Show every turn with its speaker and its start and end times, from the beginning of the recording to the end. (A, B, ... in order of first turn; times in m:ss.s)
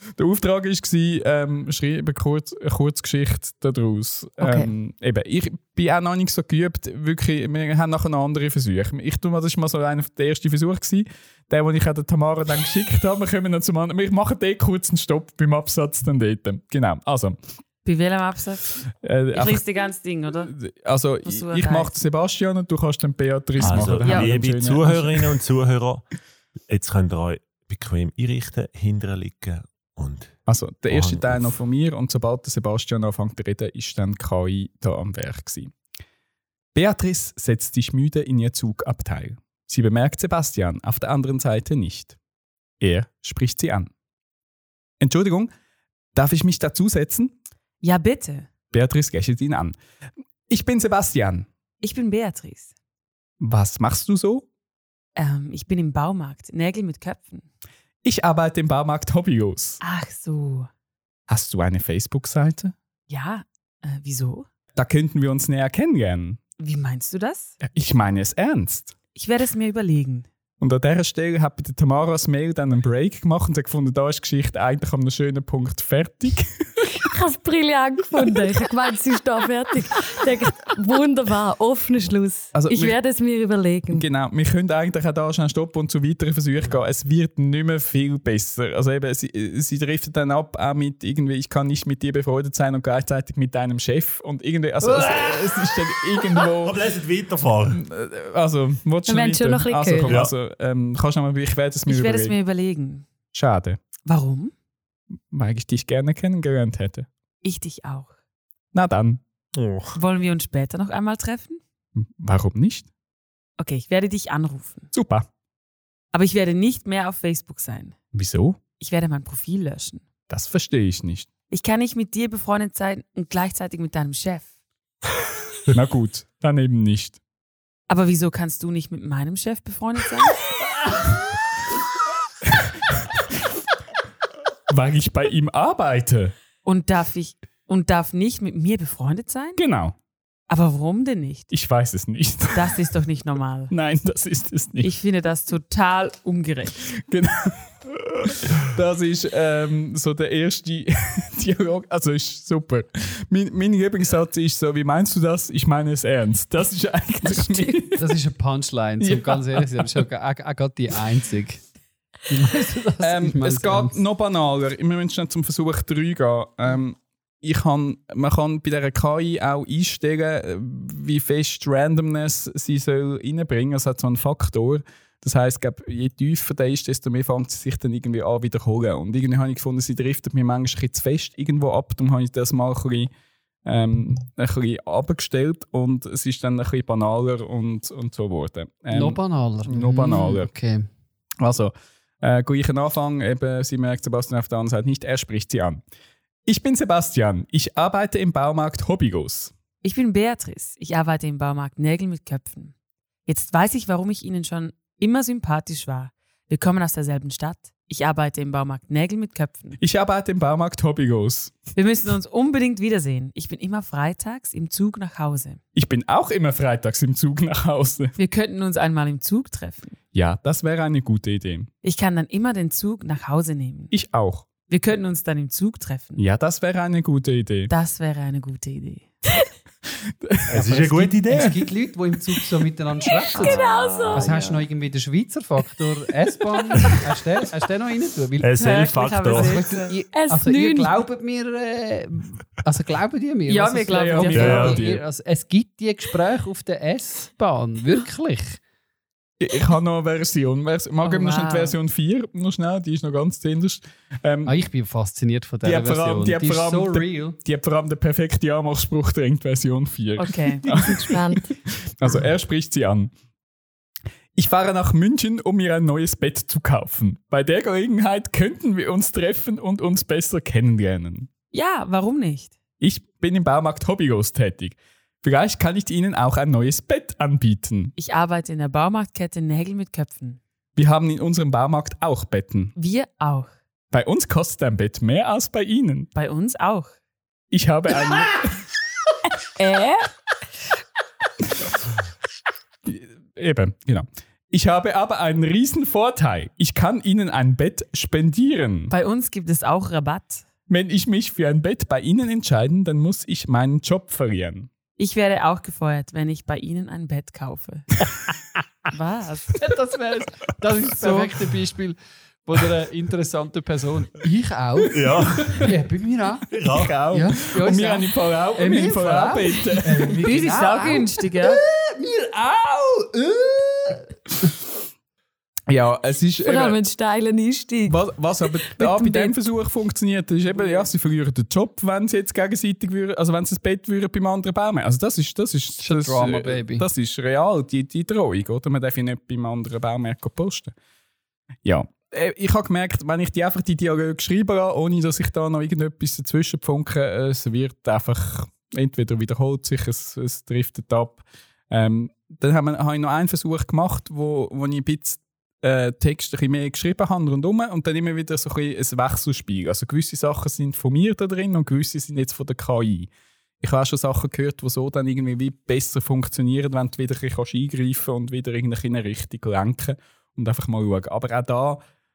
0:00.2-0:17.4 A
0:04.4-0:04.7 B
0:17.8-0:18.8 C
0:19.0-0:19.6 A
0:19.3-0:20.5 C
0:20.4-0:25.3 A
0:21.2-0:21.9 C
0:23.6-0:24.3 C
0:23.6-0:26.1 D
0:26.7-0:31.6 D
0:30.5-0:35.7 A
0:36.7-0:42.2 A
0:42.8-0:43.9 A
0:45.0-0:45.5 A
0:46.1-0:47.3 A
0:47.8-0:48.5 C
0:48.7-0:49.7 A
0:50.5-0:51.5 A
0:51.8-0:52.7 C
0:53.4-0:54.4 A
0:55.2-0:57.4 C
0:58.0-0:59.8 A
0:59.8-1:00.7 C
1:01.3-1:02.7 A
1:03.1-1:04.5 C
1:04.7-1:06.4 A
1:06.6-1:07.6 C
1:07.6-1:08.9 A
1:09.1-1:10.3 C
1:10.6-1:16.9 A
1:17.0-1:24.0 B
1:22.5-1:23.0 A
1:23.9-1:36.8 A
1:34.9-1:35.5 D
1:36.4-1:37.8 D
1:37.7-1:42.3 A
1:39.1-1:40.2 B
1:40.1-1:40.3 D
1:41.8-1:43.1 C
1:43.3-1:43.8 A
1:44.0-1:44.5 C
1:45.3-1:47.1 A
1:47.4-1:48.1 C
1:48.7-1:49.2 A
1:49.5-1:50.0 D
1:49.9-1:51.6 C
1:52.0-1:52.9 A
1:53.6-1:54.9 C
1:54.9-1:55.3 A
1:56.1-1:58.0 C
1:58.1-1:58.6 A
1:58.8-2:00.0 C
2:00.3-2:01.3 A
2:01.5-2:04.5 C
2:05.7-2:07.2 A
2:07.9-2:10.4 C
2:14.7-2:16.3 A
2:16.6-2:19.6 C
2:19.6-2:19.9 A
2:20.5-2:21.5 C
2:21.5-2:22.8 A
2:22.5-2:23.7 C
2:23.7-2:24.9 A
2:24.8-2:26.8 C
2:27.0-2:38.1 A
2:38.0-2:41.6 E
2:39.0-2:40.0 A
2:42.3-2:44.0 E
2:43.0-3:03.1 A
3:03.6-3:10.5 A
3:08.9-3:10.9 E
3:11.4-3:15.8 A
3:16.4-3:19.5 A
3:19.8-3:22.7 C
3:23.2-3:29.8 C
3:29.8-3:31.6 A
3:31.7-3:35.6 C
3:35.7-3:38.1 A
3:38.2-3:40.0 C
3:40.1-3:41.7 A
3:41.8-3:43.9 C
3:43.9-3:44.5 A
3:44.7-3:46.2 C
3:46.2-3:47.7 A
3:47.7-3:49.1 C
3:50.2-3:51.6 A
3:50.5-3:51.6 D
3:50.7-4:08.6 E
3:53.3-3:54.6 C
3:53.3-3:54.3 B
3:58.4-3:59.6 D
3:58.6-4:00.0 C
4:00.1-4:01.0 B
4:03.5-4:04.8 C
4:03.9-4:05.0 A
4:04.3-4:04.8 D
4:09.4-4:14.5 A
4:11.0-4:11.8 C
4:14.4-4:17.4 E
4:15.6-4:21.4 A
4:20.2-4:20.7 C
4:20.7-4:21.5 B
4:22.0-4:23.1 A
4:24.3-4:31.3 A
4:31.5-4:32.6 C
4:32.8-4:37.9 A
4:38.0-4:40.4 C
4:40.8-4:42.7 A
4:42.8-4:43.5 C
4:43.9-4:46.1 A
4:46.1-4:46.9 C
4:47.5-4:48.6 A
4:49.6-4:50.1 C
4:52.8-4:58.9 A
4:58.9-5:00.4 C
5:00.7-5:04.7 A
5:05.0-5:07.8 C
5:08.9-5:09.6 C
5:09.6-5:16.6 E
5:11.0-5:11.3 C
5:14.9-5:15.7 D
5:16.5-5:17.0 D
5:16.7-5:20.9 A
5:17.1-5:24.1 E
5:20.2-5:21.6 C
5:25.7-5:26.8 A
5:26.4-5:28.1 B
5:27.8-5:40.7 A
5:28.6-5:29.4 B
5:30.5-5:30.9 C
5:35.8-5:36.8 E
5:41.6-6:11.8 A